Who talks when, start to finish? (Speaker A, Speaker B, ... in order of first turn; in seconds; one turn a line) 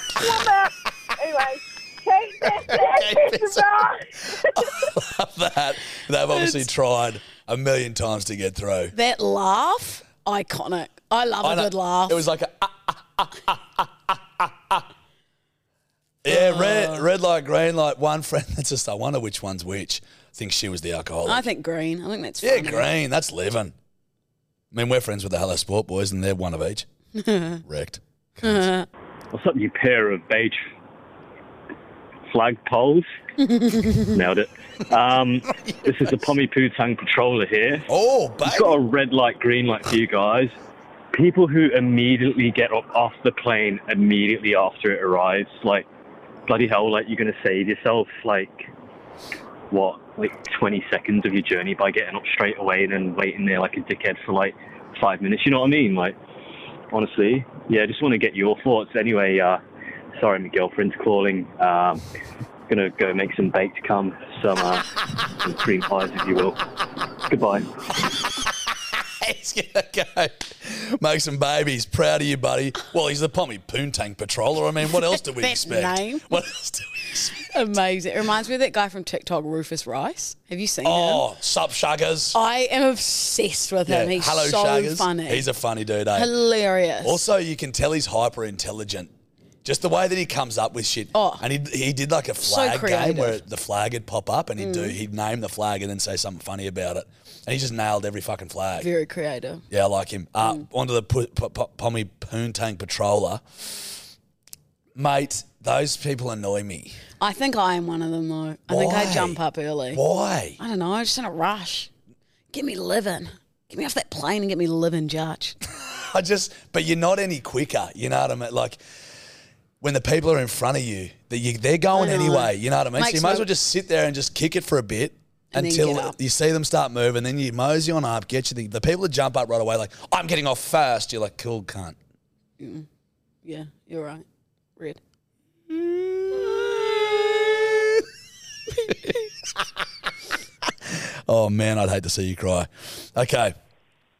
Speaker A: 0.1-4.9
Speaker B: 2.7-8.9
Speaker C: 6.3-6.6
Speaker C: 8.9-12.2
Speaker B: 11.4-14.8
Speaker B: 16.2-21.5
Speaker C: 16.3-17.1
Speaker C: 21.2-22.9
Speaker B: 22.4-23.7
Speaker B: 24.7-26.9
Speaker C: 27.2-27.6
Speaker B: 27.6-28.6
Speaker C: 28.4-28.9
Speaker D: 29.3-30.6
Speaker D: 32.3-33.1
Speaker C: 33.4-34.1
Speaker D: 34.1-37.9
Speaker B: 35.5-36.2
Speaker B: 37.9-38.8
Speaker D: 38.4-40.5
Speaker D: 41.1-45.9
Speaker D: 46.5-48.7
Speaker D: 49.7-56.1
Speaker D: 56.9-59.6
Speaker D: 60.2-62.0
Speaker D: 62.7-64.8
Speaker D: 65.4-66.6
Speaker D: 67.3-67.7
Speaker B: 68.4-77.5
Speaker C: 75.1-76.3
Speaker C: 77.5-81.2
Speaker B: 80.8-82.4
Speaker C: 82.3-85.5
Speaker B: 83.8-86.3
Speaker C: 86.1-87.2
Speaker B: 87.0-89.1
Speaker B: 89.6-98.9
Speaker C: 91.1-91.4
Speaker C: 92.4-93.4
Speaker C: 94.6-95.0
Speaker C: 98.8-99.6
Speaker B: 99.7-103.4
Speaker B: 104.9-107.0
Speaker C: 107.2-110.0
Speaker B: 108.7-109.4
Speaker B: 109.9-110.6
Speaker C: 110.6-111.9
Speaker C: 112.5-115.6
Speaker B: 115.8-118.8
Speaker B: 119.8-132.0
Speaker C: 121.9-123.5
Speaker C: 125.5-126.2
Speaker C: 132.6-132.9
Speaker C: 133.4-134.2
Speaker C: 135.7-137.7
Speaker B: 140.8-143.5